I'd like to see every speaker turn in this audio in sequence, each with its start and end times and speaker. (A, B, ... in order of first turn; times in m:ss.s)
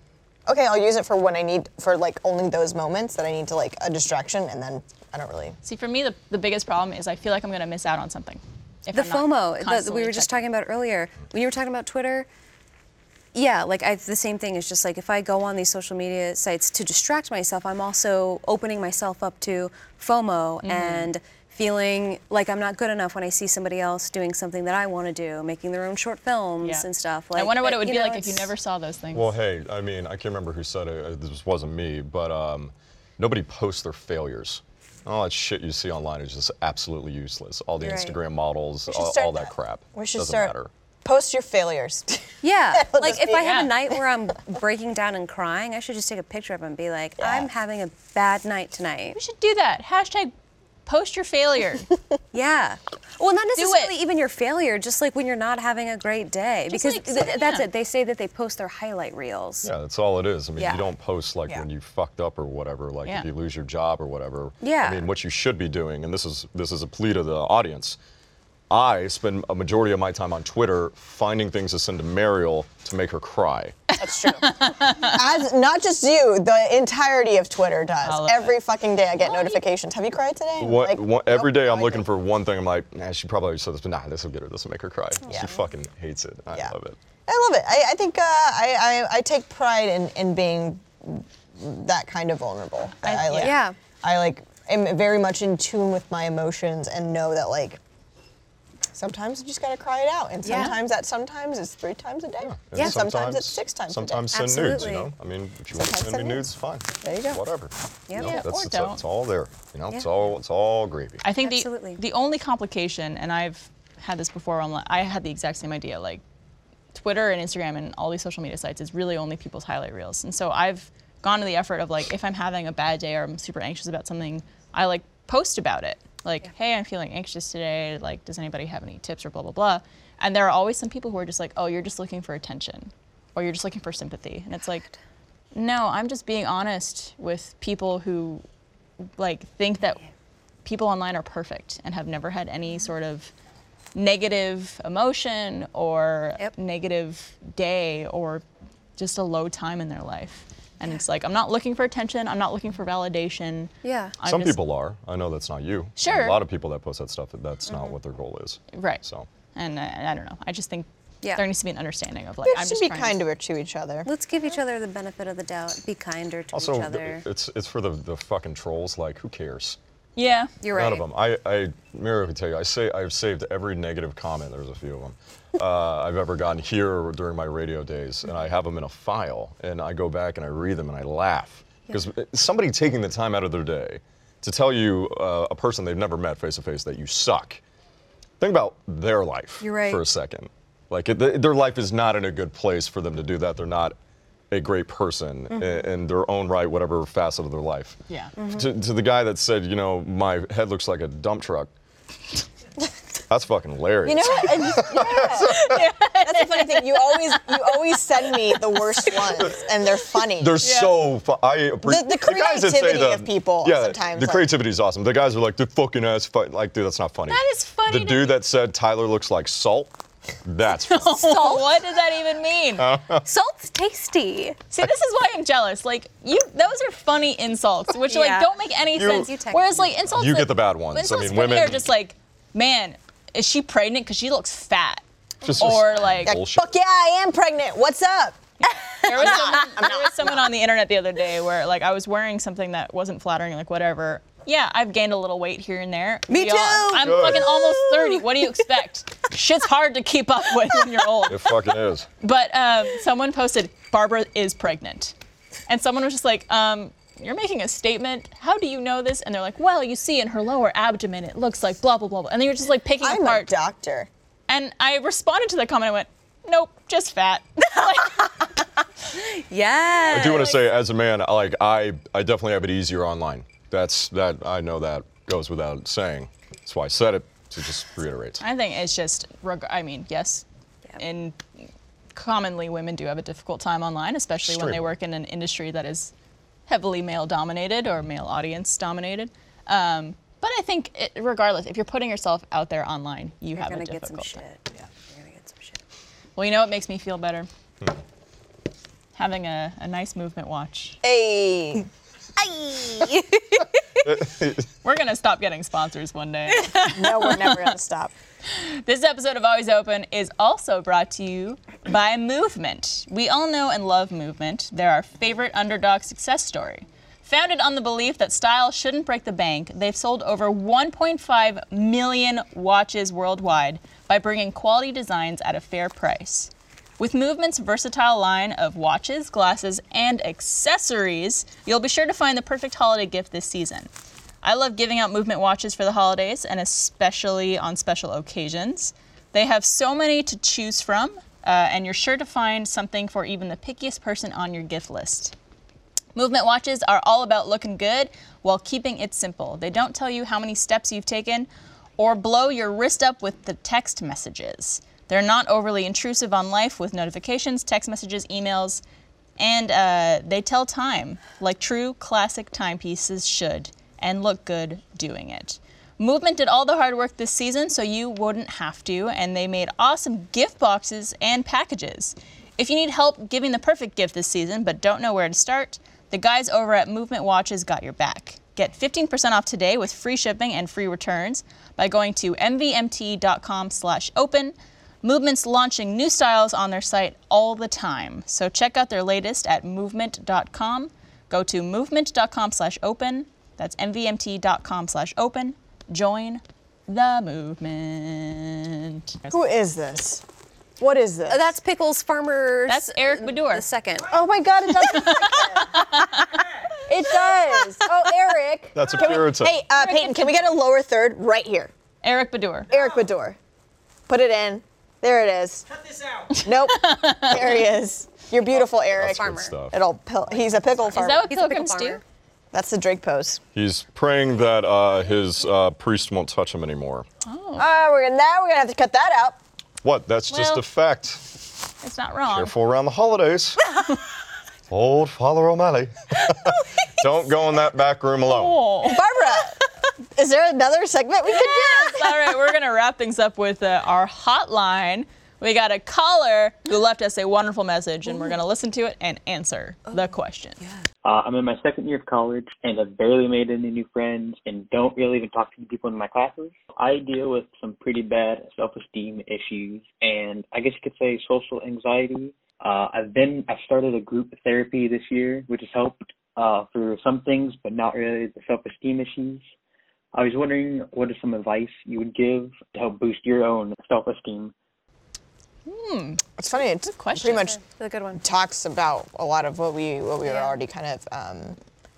0:00.5-0:05.6 A
0:05.6-0:10.3 B
0:08.9-0:12.3 C
0:13.3-0:28.5 C
0:20.6-0:21.1 B
0:26.6-0:29.3 B
0:29.1-0:40.7 D
0:37.8-0:38.2 C
0:38.9-0:40.5 A
0:41.0-0:43.6 A
0:42.4-0:49.2 C
0:43.3-0:43.7 B
0:47.2-0:47.5 A
0:49.1-0:50.3 B
0:50.8-0:51.9 B
0:52.3-0:59.7 C
0:53.6-0:53.9 B
0:56.7-0:57.7 B
0:59.6-1:08.0 D
1:00.6-1:00.8 C
1:04.6-1:05.0 C
1:08.7-1:13.8 D
1:14.0-1:22.1 A
1:14.2-1:15.2 B
1:18.0-1:18.6 B
1:19.3-1:19.5 C
1:20.6-1:27.0 D
1:25.3-1:25.5 C
1:25.3-1:25.5 A
1:27.3-1:37.8 A
1:33.0-1:33.6 B
1:33.3-1:33.8 C
1:38.9-1:44.9 A
1:40.4-1:40.8 C
1:42.4-1:51.2 D
1:44.3-1:45.1 C
1:45.7-1:46.4 A
1:47.0-1:47.4 A
1:47.1-1:47.4 C
1:48.1-1:48.4 C
1:48.2-1:49.0 B
1:51.2-1:56.2 B
1:51.4-1:52.0 C
1:56.9-2:14.8 B
2:15.5-2:18.4 B
2:19.2-2:20.0 B
2:20.6-2:23.3 B
2:23.9-2:28.4 B
2:29.0-2:34.6 B
2:33.8-2:34.2 C
2:34.2-2:39.3 D
2:36.0-2:36.4 B
2:37.7-2:37.9 C
2:38.7-2:39.0 B
2:39.5-2:43.2 B
2:42.4-2:44.1 A
2:44.0-2:47.2 C
2:46.5-2:49.8 D
2:50.2-2:50.5 B
2:50.6-2:51.0 C
2:50.7-3:07.6 D
3:08.4-3:13.9 D
3:09.6-3:10.0 C
3:14.5-3:21.7 D
3:15.5-3:15.8 C
3:18.4-3:18.7 C
3:23.3-3:25.8 D
3:24.0-3:30.6 A
3:25.4-3:27.5 B
3:30.4-3:39.9 D
3:30.6-3:30.9 B
3:31.8-3:34.5 A
3:37.3-3:38.4 B
3:40.4-3:41.6 D
3:40.7-3:42.9 B
3:42.8-3:43.2 D
3:43.2-3:44.6 C
3:44.7-3:56.4 B
3:48.1-3:49.9 C
3:49.0-3:49.3 D
3:50.1-3:51.9 D
3:55.4-3:56.6 D
3:56.2-4:00.5 A
3:58.6-4:11.5 B
4:06.3-4:07.1 C
4:07.0-4:07.5 D
4:11.3-4:12.1 D
4:12.2-4:15.1 B
4:15.7-4:23.5 B
4:23.0-4:24.1 A
4:24.5-4:28.5 B
4:27.8-4:30.6 C
4:30.1-4:38.4 D
4:30.1-4:30.5 B
4:38.4-4:40.4 B
4:41.0-4:41.4 B
4:42.1-4:46.1 B
4:44.4-4:44.8 D
4:46.7-4:54.4 B
4:53.6-4:55.8 C
4:56.4-4:57.5 B
4:59.1-5:01.0 B
5:01.0-5:01.9 A
5:02.4-5:03.7 C
5:04.0-5:04.6 D
5:04.8-5:07.6 B
5:06.8-5:08.1 A
5:08.5-5:33.9 B
5:34.4-5:45.3 B
5:46.2-5:58.8 B
5:59.4-6:39.4 B
6:39.3-6:40.2 A
6:40.8-6:41.5 A
6:41.3-6:44.1 C
6:42.7-6:43.6 B
6:44.1-6:46.0 A
6:44.9-6:46.4 B
6:46.8-6:51.7 A
6:48.7-6:49.6 D
6:49.7-6:50.3 B
6:52.0-6:52.7 B
6:52.7-6:53.4 A
6:54.1-6:55.7 A
6:56.2-7:01.3 A
6:56.3-6:57.4 B
6:58.9-6:59.7 D
6:59.0-6:59.5 C
7:00.9-7:02.0 B
7:01.0-7:02.0 C
7:02.5-7:03.4 A
7:03.5-7:07.0 D
7:07.2-7:07.7 B
7:07.6-7:09.4 A
7:09.8-7:11.3 D
7:10.3-7:10.6 B
7:11.8-7:12.5 B
7:12.3-7:13.8 D
7:14.7-7:18.6 D
7:18.2-7:19.0 B
7:18.8-7:19.6 A
7:20.1-7:22.2 A
7:21.4-7:30.6 B
7:30.6-7:30.8 C
7:31.0-7:49.4 E
7:50.1-7:54.5 E
7:55.6-7:56.2 B
7:56.4-7:57.6 A
7:56.8-7:57.5 B
7:57.2-7:58.2 C
7:58.2-8:01.6 A
8:00.2-8:00.5 C